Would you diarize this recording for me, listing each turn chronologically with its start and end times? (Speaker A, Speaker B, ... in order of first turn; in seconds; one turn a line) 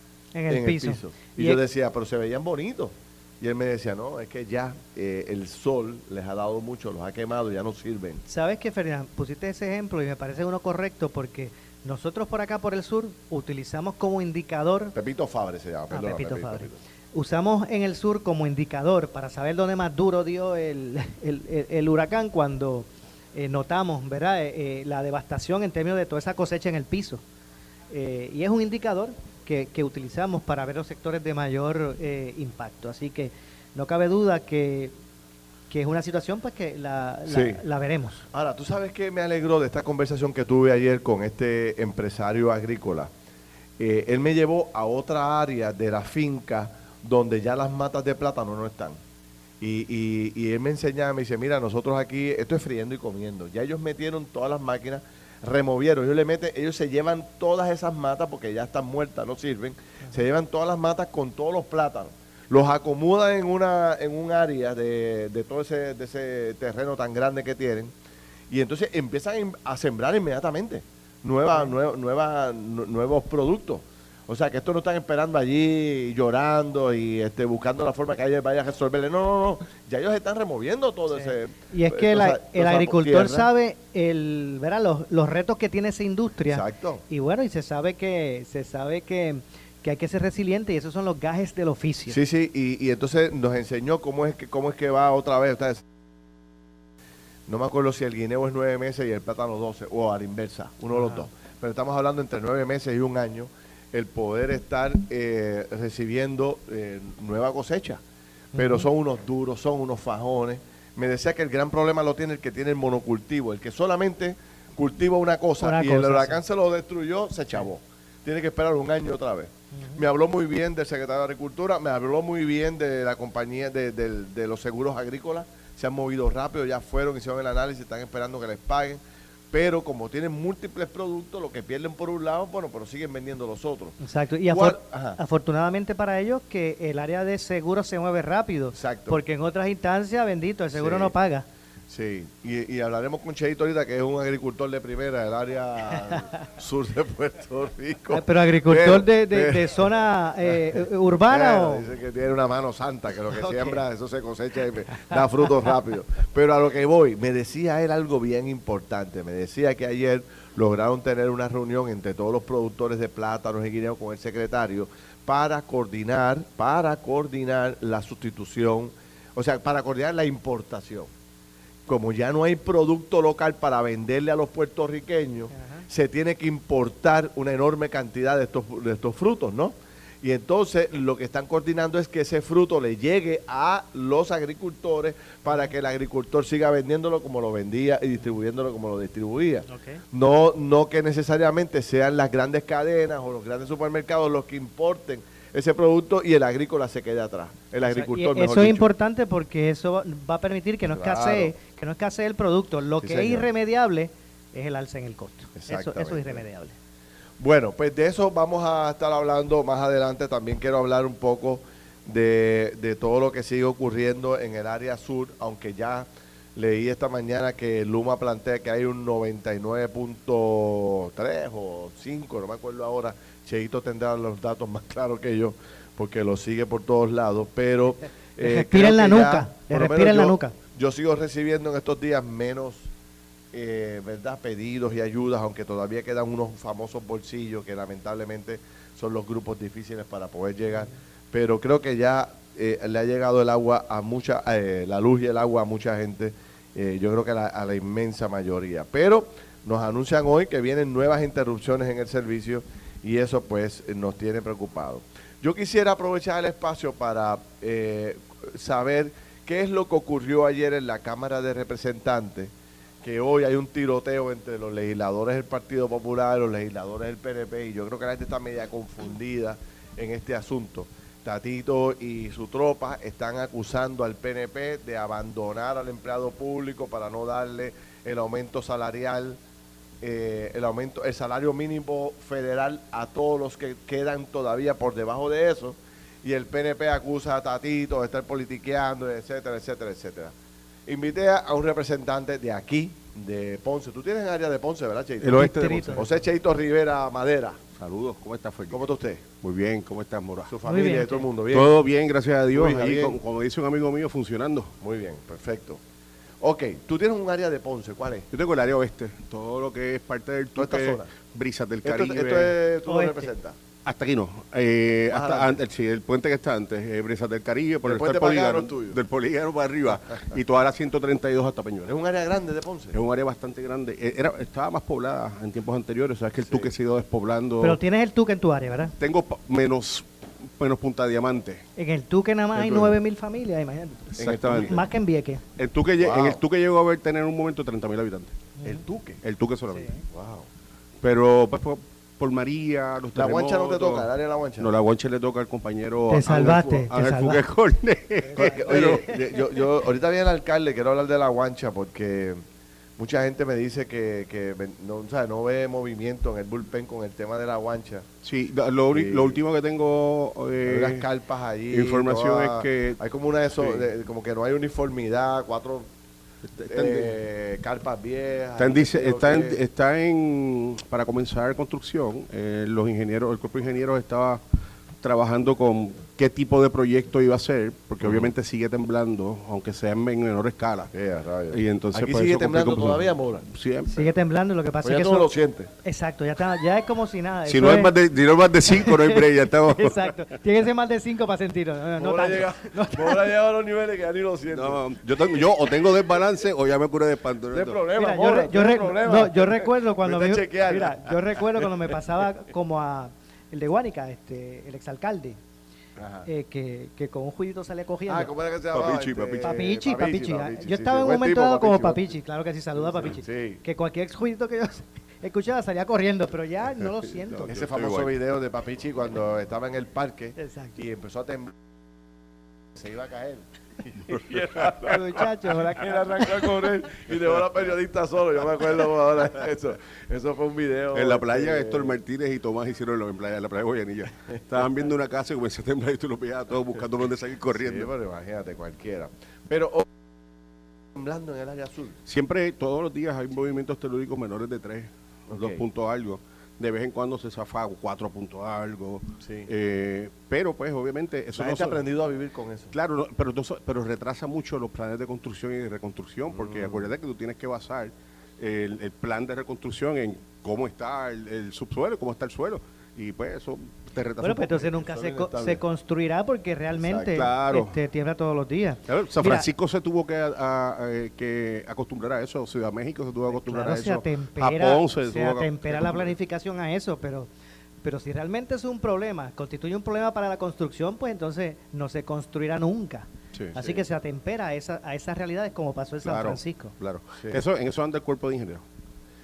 Speaker A: 0.3-1.6
Speaker B: 0.5-8.2
Speaker A: 8.3-15.0
Speaker B: 14.9-16.8
Speaker A: 15.9-27.2
Speaker A: 27.9-34.9
Speaker A: 35.7-38.2
Speaker B: 37.3-37.6
Speaker B: 38.3-43.1
Speaker B: 43.8-49.0
Speaker B: 49.6-67.9
Speaker B: 68.5-83.5
Speaker A: 81.2-92.2
Speaker B: 86.5-87.0
Speaker B: 92.1-95.8
Speaker B: 97.5-108.0
Speaker A: 100.9-101.2
Speaker A: 108.5-108.9
Speaker B: 108.6-129.0
Speaker A: 115.6-116.4
Speaker A: 119.7-120.0
Speaker B: 129.5-134.0
Speaker A: 134.0-141.5
Speaker B: 134.5-135.2
Speaker B: 138.8-139.2
Speaker B: 140.8-141.1
Speaker B: 141.9-149.7
Speaker A: 148.1-151.9
Speaker B: 151.3-171.1
Speaker A: 153.3-153.8
Speaker B: 171.9-198.9
Speaker A: 175.5-175.9
Speaker A: 189.7-190.0
Speaker A: 197.8-206.8
Speaker B: 200.9-201.5
Speaker B: 203.0-203.5
Speaker B: 205.6-206.4
Speaker B: 207.4-232.9
Speaker A: 228.4-230.6
Speaker B: 233.5-262.5
Speaker B: 263.0-279.4
Speaker B: 280.0-290.3
Speaker B: 290.9-297.7
Speaker C: 295.2-296.0
Speaker A: 295.3-296.2
Speaker C: 297.7-298.8
Speaker B: 298.7-299.2
Speaker C: 299.4-300.5
Speaker B: 300.5-301.7
Speaker A: 300.6-301.3
Speaker C: 301.5-304.8
Speaker B: 302.5-303.2
Speaker B: 304.8-305.8
Speaker B: 306.4-308.3
Speaker C: 308.3-312.6
Speaker B: 310.6-311.1
Speaker B: 311.8-313.6
Speaker A: 312.9-313.3
Speaker C: 313.9-321.9
Speaker B: 315.1-315.6
Speaker B: 317.9-319.0
Speaker B: 321.9-322.9
Speaker C: 322.9-327.8
Speaker A: 327.6-328.9
Speaker C: 329.0-331.6
Speaker A: 331.8-335.4
Speaker C: 332.6-332.9
Speaker C: 334.1-334.9
Speaker B: 334.2-334.8
Speaker C: 335.6-338.4
Speaker B: 336.0-336.4
Speaker A: 338.6-338.8
Speaker B: 338.6-339.2
Speaker C: 339.2-339.9
Speaker A: 339.7-340.0
Speaker B: 340.1-340.5
Speaker C: 341.0-344.1
Speaker B: 343.1-344.7
Speaker C: 344.6-349.2
Speaker A: 346.1-347.4
Speaker A: 348.3-349.2
Speaker B: 348.4-352.4
Speaker B: 353.0-358.1
Speaker C: 358.2-361.1
Speaker B: 358.9-359.4
Speaker B: 360.6-365.9
Speaker C: 361.7-363.0
Speaker C: 363.6-363.9
Speaker C: 366.6-367.2
Speaker B: 366.6-369.6
Speaker C: 368.6-374.4
Speaker C: 375.0-380.9
Speaker B: 380.9-383.5
Speaker C: 381.5-384.1
Speaker A: 383.9-385.3
Speaker B: 384.8-385.7
Speaker A: 385.8-387.9
Speaker C: 387.5-390.2
Speaker A: 388.7-393.3
Speaker B: 392.0-394.8
Speaker C: 394.5-397.8
Speaker B: 397.5-401.7
Speaker A: 398.0-405.4
Speaker B: 406.0-406.3
Speaker A: 406.2-408.3
Speaker B: 408.1-412.1
Speaker C: 408.7-409.6
Speaker A: 409.4-417.6
Speaker B: 413.0-413.6
Speaker C: 417.3-418.1
Speaker B: 417.5-421.5
Speaker A: 420.4-420.8
Speaker B: 422.8-432.0
Speaker A: 424.8-426.5
Speaker C: 430.9-437.9
Speaker B: 437.5-439.9
Speaker B: 440.9-442.0
Speaker C: 442.1-451.8
Speaker B: 445.3-445.6
Speaker B: 449.2-449.5
Speaker B: 451.4-452.7
Speaker C: 452.7-464.7
Speaker B: 456.3-456.9
Speaker A: 464.2-469.5
Speaker B: 464.8-465.6
Speaker B: 466.8-467.3
Speaker C: 467.1-467.8
Speaker C: 468.9-476.1
Speaker A: 473.3-477.3
Speaker A: 477.8-486.8
Speaker B: 483.6-483.8
Speaker C: 486.0-488.6